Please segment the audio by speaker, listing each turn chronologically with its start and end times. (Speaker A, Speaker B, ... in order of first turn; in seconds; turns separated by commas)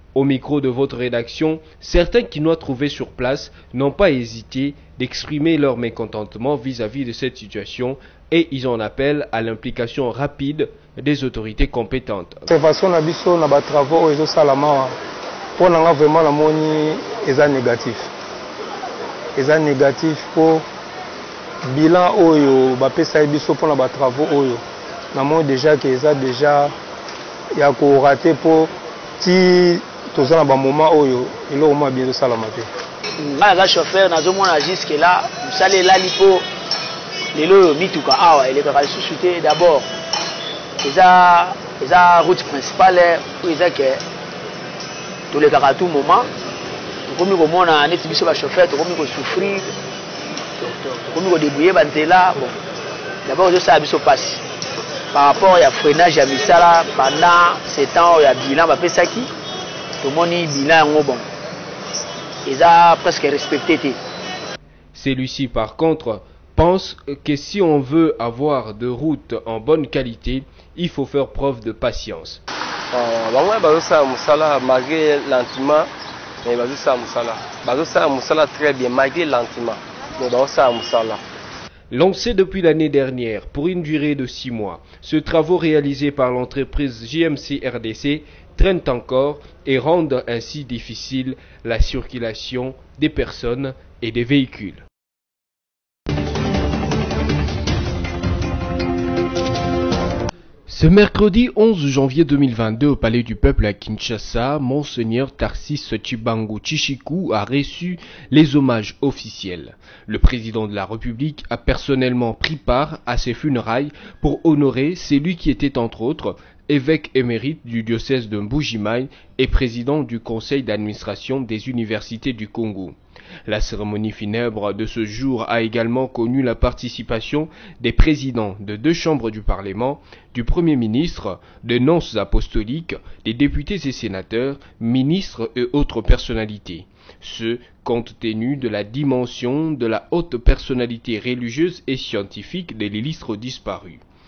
Speaker A: 0.1-12.5, Speaker B: 12.5-15.0, Speaker B: 15.6-18.1, Speaker B: 19.4-20.6, Speaker B: 21.6-26.7, Speaker B: 27.6-32.7, Speaker C: 33.2-36.5, Speaker C: 37.3-39.9, Speaker C: 40.8-44.0, Speaker C: 45.3-46.3, Speaker C: 47.1-49.7, Speaker C: 50.6-52.6, Speaker C: 53.2-54.4, Speaker C: 55.1-59.3, Speaker C: 60.0-61.2, Speaker C: 62.5-64.0, Speaker A: 64.9-72.4, Speaker D: 72.9-75.9, Speaker D: 76.5-81.2, Speaker A: 81.9-94.8, Speaker A: 100.7-144.0